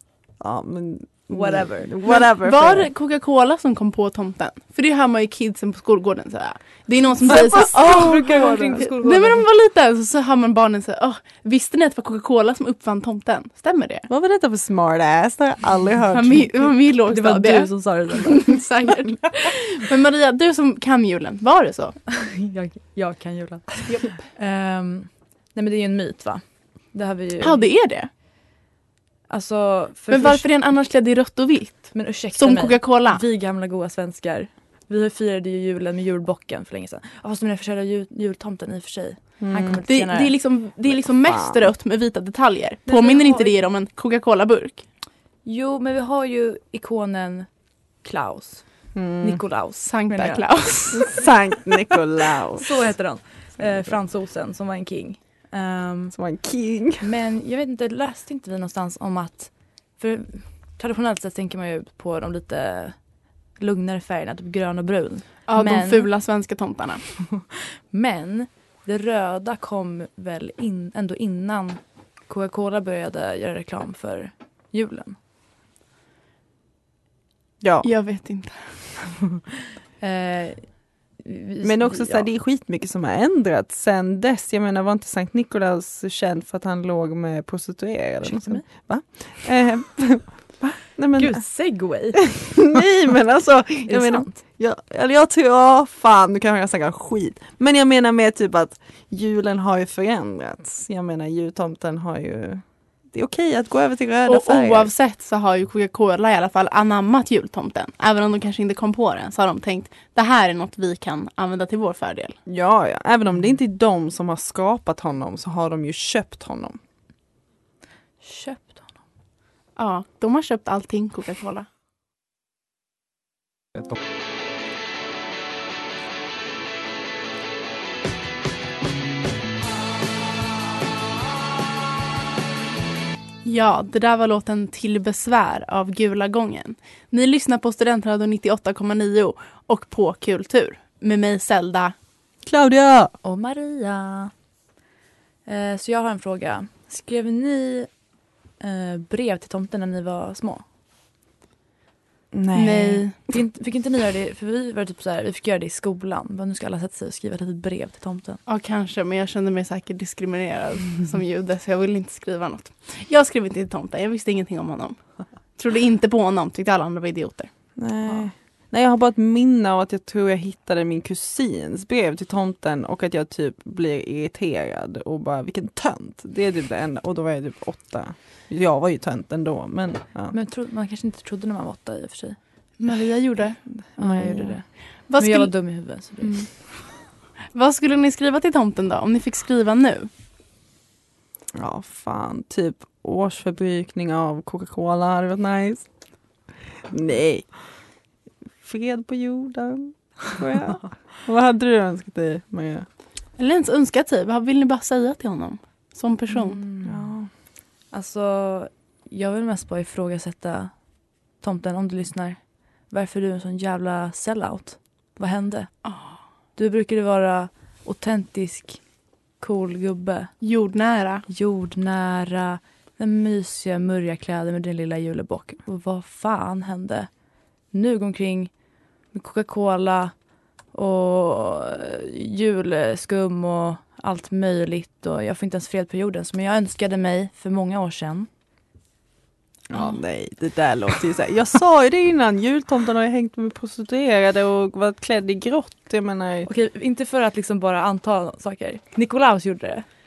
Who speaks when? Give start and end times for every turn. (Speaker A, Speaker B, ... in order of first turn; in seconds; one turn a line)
Speaker A: 0.4-2.9
Speaker B: 1.3-1.9
Speaker C: 2.0-14.1
Speaker A: 7.3-8.9
Speaker B: 7.3-9.5
Speaker A: 14.1-16.7
Speaker C: 16.1-22.0
Speaker B: 17.1-18.7
Speaker B: 22.1-28.2
Speaker C: 23.9-24.2
Speaker C: 27.4-28.1
Speaker B: 29.3-30.7
Speaker C: 30.1-33.2
Speaker B: 31.9-40.4
Speaker A: 39.4-39.8
Speaker C: 39.9-44.9
Speaker A: 41.2-41.6
Speaker B: 42.9-43.6
Speaker B: 45.4-50.9
Speaker A: 48.9-49.4
Speaker C: 49.8-51.2
Speaker A: 50.9-52.8
Speaker B: 52.6-56.2
Speaker A: 53.5-54.0
Speaker A: 56.1-57.1
Speaker B: 57.0-66.1
Speaker C: 65.5-67.1
Speaker B: 67.9-75.2
Speaker A: 77.6-77.9
Speaker C: 77.8-78.8
Speaker B: 80.0-82.3
Speaker A: 81.6-104.9
Speaker B: 88.2-89.2
Speaker B: 91.2-92.8
Speaker B: 93.9-94.5
Speaker C: 104.3-112.4
Speaker A: 112.5-116.8
Speaker B: 118.2-119.0
Speaker C: 119.8-121.7
Speaker C: 133.4-141.9
Speaker A: 142.4-143.2
Speaker B: 143.2-144.3
Speaker B: 145.4-148.0
Speaker B: 148.6-150.7
Speaker A: 152.3-153.1
Speaker C: 152.6-153.2
Speaker B: 153.3-158.4
Speaker C: 158.5-167.5
Speaker A: 167.8-180.4
Speaker B: 180.3-182.9
Speaker C: 182.8-183.6
Speaker A: 184.0-184.6
Speaker B: 184.0-186.6
Speaker C: 185.1-186.9
Speaker C: 187.5-190.1
Speaker A: 191.5-195.9
Speaker A: 196.9-197.9
Speaker A: 198.6-202.9
Speaker C: 203.4-206.6
Speaker B: 206.3-207.2
Speaker A: 206.8-207.3
Speaker B: 207.9-220.4
Speaker C: 215.8-216.2
Speaker C: 220.4-221.2
Speaker B: 221.3-238.3
Speaker A: 239.7-246.5
Speaker B: 246.5-249.9